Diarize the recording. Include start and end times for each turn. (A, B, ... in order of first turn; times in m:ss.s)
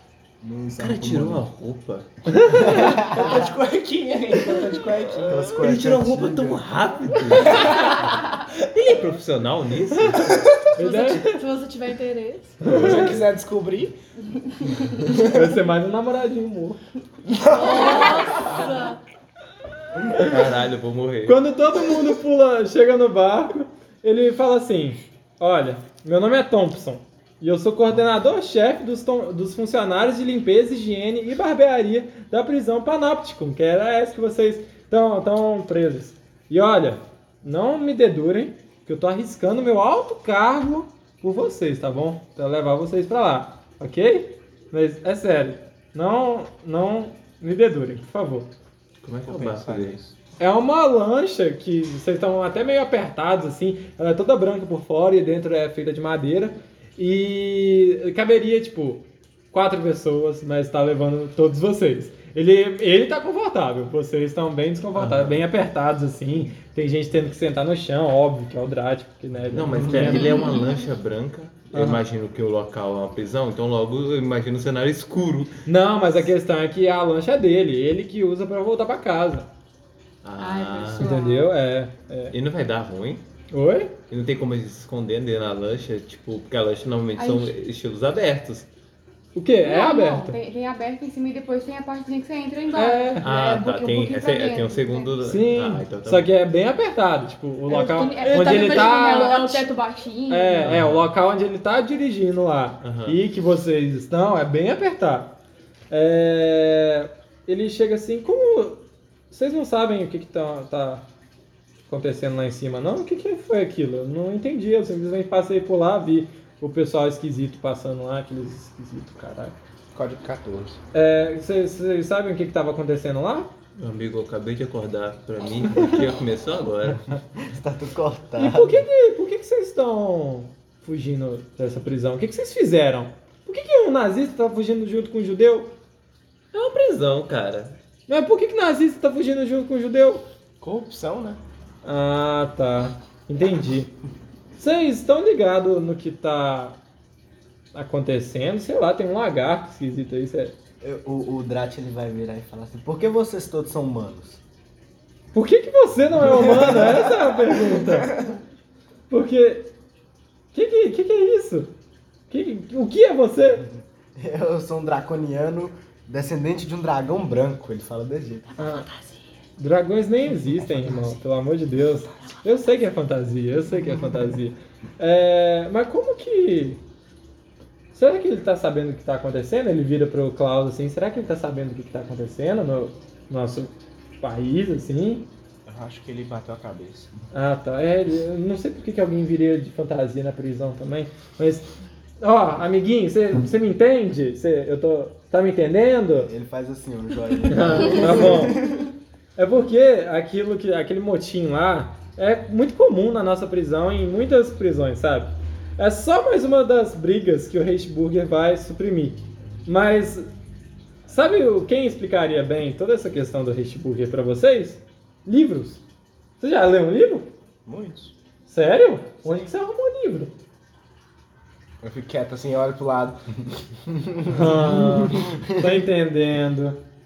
0:00.4-0:01.5 A
0:00.8-0:02.1 B
0:02.3-0:03.2 C
0:02.6-0:05.7 D
0:02.8-0:03.4 A
0:05.2-0:06.6 A
0:05.5-0:07.9 B
0:07.4-0:07.7 C
0:08.7-0:10.5 B
0:10.2-0:10.6 D
0:10.8-0:11.4 C
0:10.8-0:12.6 E
0:12.6-0:13.2 C
0:12.7-0:13.2 B
0:12.7-0:14.0 D
0:15.0-0:15.4 D
0:15.2-0:16.8 C
0:17.3-0:18.5 D
0:17.5-0:19.0 E
0:20.1-0:20.4 C
0:20.2-0:21.4 B
0:21.2-0:48.5 C
0:49.0-0:50.0 B
0:49.3-0:50.1 D
0:50.4-1:10.5 C
1:05.0-1:05.4 B
1:09.5-1:15.6 B
1:11.7-1:12.0 C
1:15.6-1:19.5 C
1:20.2-1:21.1 B
1:20.4-1:21.5 F
1:21.0-1:22.4 C
1:22.3-1:23.2 B
1:23.5-1:24.0 C
1:24.1-1:28.7 B
1:27.2-1:27.5 F
1:29.4-1:30.4 C
1:29.6-1:35.2 F
1:32.7-1:33.3 C
1:33.2-1:36.3 B
1:35.2-1:39.5 C
1:37.7-1:40.8 F
1:38.2-1:39.7 E
1:40.3-1:45.4 C
1:40.6-1:41.1 B
1:42.8-1:43.2 B
1:45.9-1:51.0 C
1:51.9-1:59.6 C
1:59.9-2:00.8 D
2:00.9-2:03.5 C
2:03.8-2:07.0 B
2:07.4-2:08.8 A
2:08.4-2:15.7 C
2:16.5-2:17.8 B
2:18.1-2:20.2 C
2:20.6-2:21.4 D
2:21.8-2:23.9 C
2:24.6-2:26.8 C
2:27.7-2:30.6 C
2:30.8-2:34.4 A
2:35.3-2:38.1 C
2:37.8-2:38.4 D
2:39.1-2:39.7 C
2:40.5-2:41.7 C
2:42.3-2:43.7 C
2:44.2-2:48.7 A
2:48.6-2:48.9 C
2:49.6-2:56.8 C
2:57.9-3:05.3 C
3:05.6-3:07.1 D
3:07.3-3:11.7 C
3:12.2-3:16.3 C
3:16.2-3:18.9 A
3:17.5-3:18.6 C
3:19.4-3:30.3 C
3:31.1-3:35.8 C
3:36.4-3:37.3 C
3:37.6-3:38.1 D
3:38.5-3:40.3 C
3:41.8-3:43.4 D
3:43.9-3:45.2 D
3:44.3-3:46.8 C